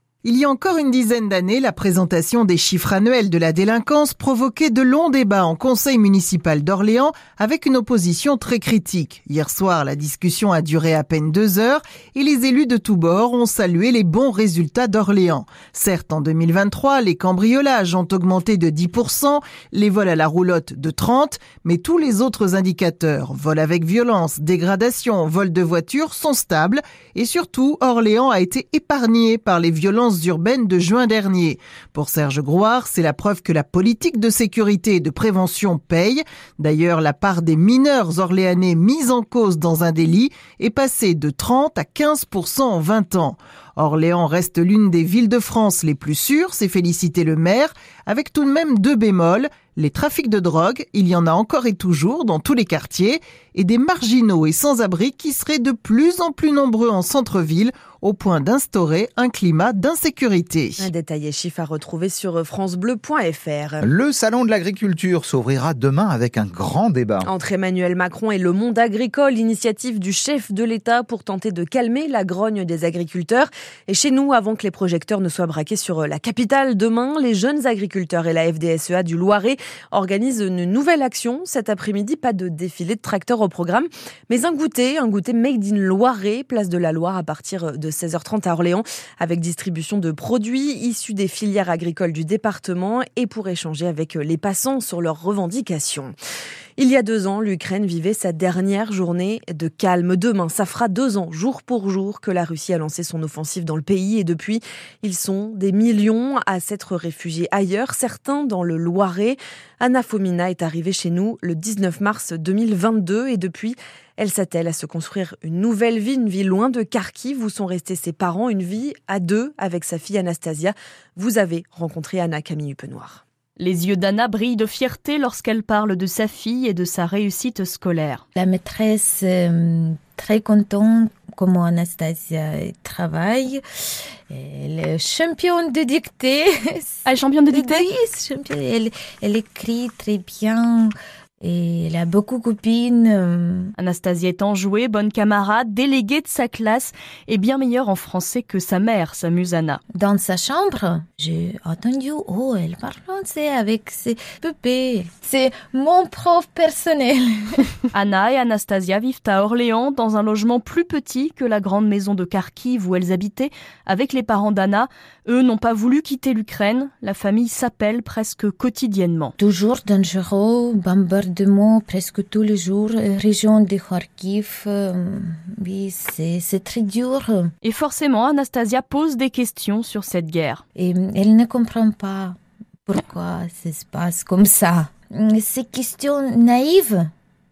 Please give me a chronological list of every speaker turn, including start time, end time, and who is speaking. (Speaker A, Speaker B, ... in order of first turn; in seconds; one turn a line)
Speaker A: 0.2-60.9
Speaker B: 60.8-63.8
Speaker C: 63.8-67.3
Speaker B: 67.2-96.1
Speaker B: 96.8-123.2
Speaker D: 123.6-128.2
Speaker E: 128.3-133.6
Speaker E: 134.3-143.7
Speaker D: 137.0-137.9
Speaker D: 143.8-149.8
Speaker E: 149.9-157.7
Speaker D: 157.9-169.3
Speaker E: 169.4-177.5
Speaker D: 177.6-180.6
Speaker E: 180.8-182.3
Speaker E: 182.9-187.1